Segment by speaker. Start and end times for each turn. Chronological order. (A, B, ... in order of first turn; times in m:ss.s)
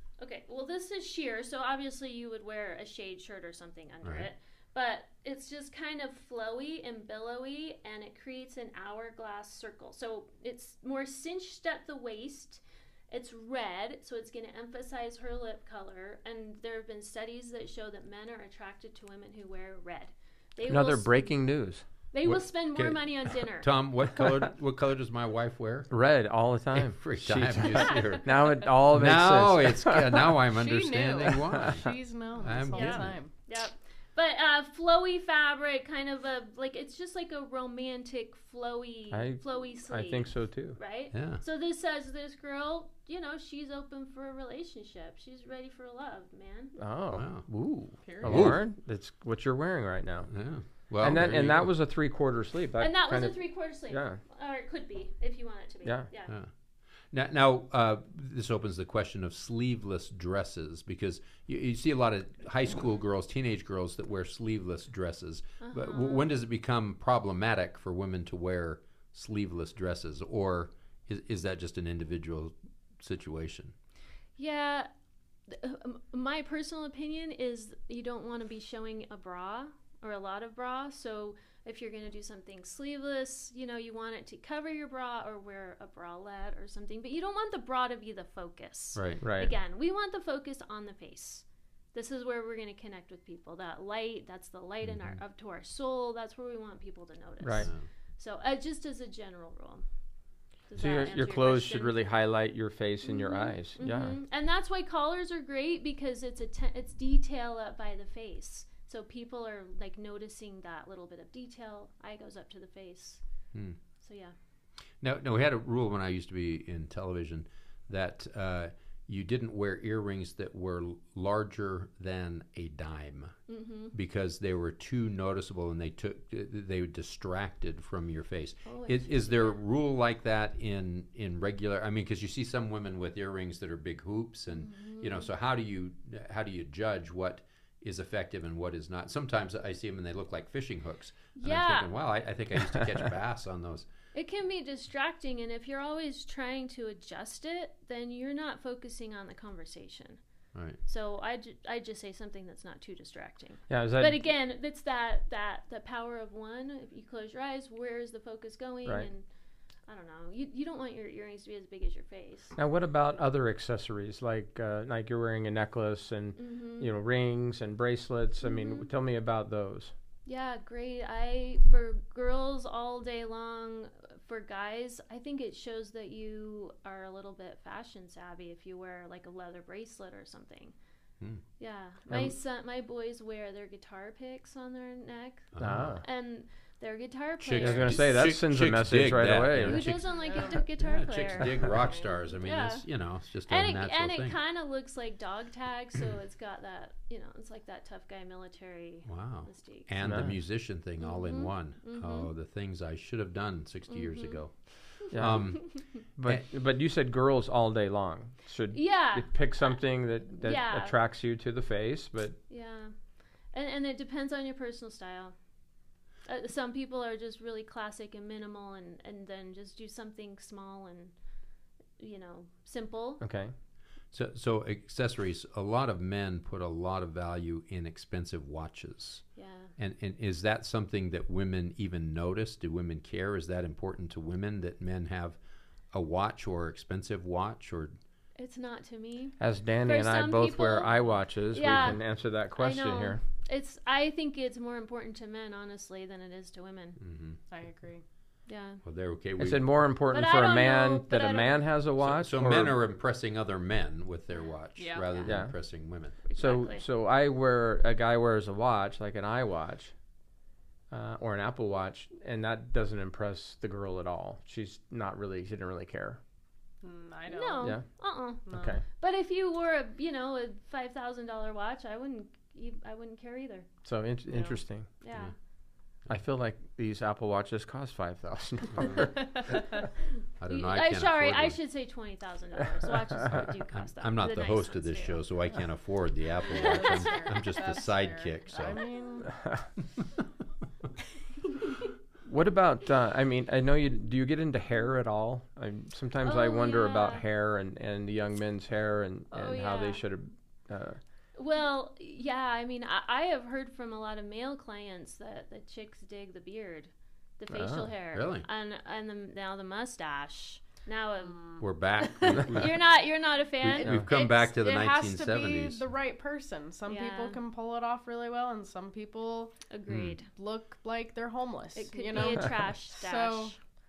0:00.2-0:21.3 A
0:04.0-0:04.3 B
0:20.7-0:21.8 C
0:22.1-0:23.7 A
0:22.2-0:25.9 B
0:25.9-0:30.3 C
0:26.7-0:28.3 B
0:27.7-0:28.2 A
0:28.9-0:33.2 B
0:30.5-0:33.3 D
0:32.7-0:46.7 A
0:39.1-0:40.8 C
0:41.1-0:41.4 B
0:46.8-0:50.3 C
0:47.1-0:47.4 B
0:48.0-0:48.5 D
0:48.2-0:48.6 B
0:50.3-0:51.7 B
0:51.0-0:53.4 C
0:52.8-0:56.3 A
0:53.9-0:54.2 C
0:57.1-1:13.7 B
1:05.6-1:06.3 A
1:14.4-1:14.9 A
1:15.5-1:39.8 A
1:29.2-1:29.5 C
1:34.8-1:35.2 B
1:37.4-1:37.7 C
1:40.7-1:42.0 A
1:40.8-1:44.1 C
1:43.0-1:53.2 A
1:54.0-1:54.3 A
1:55.0-2:03.3 B
2:03.5-2:03.9 A
2:03.9-2:23.9 B
2:08.6-2:09.6 A
2:14.5-2:15.3 A
2:21.3-2:21.9 A
2:24.1-2:30.2 A
2:30.8-2:39.2 A
2:33.7-2:34.2 C
2:39.9-2:42.5 A
2:42.6-2:49.9 C
2:46.4-2:46.9 A
2:48.4-2:48.9 A
2:50.2-3:00.7 A
3:01.6-3:08.1 A
3:02.1-3:02.3 C
3:05.5-3:06.0 B
3:05.6-3:06.0 C
3:07.4-3:14.4 B
3:07.6-3:09.8 C
3:09.6-3:11.9 A
3:10.1-3:10.6 D
3:11.7-3:12.1 D
3:12.4-3:12.9 A
3:13.5-3:19.9 A
3:19.0-3:24.5 B
3:20.0-3:20.3 C
3:21.0-3:22.3 A
3:23.9-3:24.4 A
3:25.0-3:25.7 B
3:25.1-3:25.6 C
3:26.2-3:32.4 C
3:28.7-3:29.8 A
3:30.3-3:31.0 A
3:32.5-3:32.9 A
3:33.5-3:35.3 A
3:36.2-3:41.1 A
3:42.0-3:43.2 A
3:43.2-3:43.5 C
3:44.1-3:49.2 B
3:49.4-3:49.7 A
3:49.8-3:55.4 B
3:55.9-3:58.0 B
3:58.4-4:02.0 A
3:59.4-4:03.2 C
4:01.6-4:02.0 B
4:02.6-4:07.0 A
4:07.0-4:07.4 B
4:07.5-4:08.0 D
4:08.5-4:08.8 A
4:08.8-4:09.7 B
4:09.4-4:12.8 C
4:10.1-4:11.6 A
4:12.0-4:16.2 B
4:14.8-4:15.2 D
4:15.2-4:15.5 C
4:16.2-4:16.8 A
4:16.3-4:19.9 C
4:20.9-4:26.2 C
4:26.8-4:27.8 D
4:27.3-4:33.7 A
4:28.5-4:28.8 C
4:28.5-4:28.7 D
4:33.8-4:34.9 C
4:34.3-4:34.6 D
4:35.0-4:35.3 A
4:36.1-4:39.2 C
4:38.8-4:39.1 B
4:40.4-4:41.6 B
4:40.5-4:45.2 A
4:43.3-4:48.8 B
4:46.4-4:49.4 D
4:46.5-4:47.4 A
4:52.2-5:01.0 C
4:56.2-4:57.2 A
4:59.3-5:00.0 A
5:01.4-5:14.5 A
5:07.5-5:07.9 C
5:08.1-5:08.4 B
5:11.6-5:12.8 B
5:13.6-5:15.8 B
5:13.8-5:14.0 C
5:14.1-5:19.5 D
5:16.9-5:17.4 A
5:19.7-5:20.3 A
5:19.9-5:20.2 B
5:20.3-5:23.5 D
5:21.7-5:23.6 A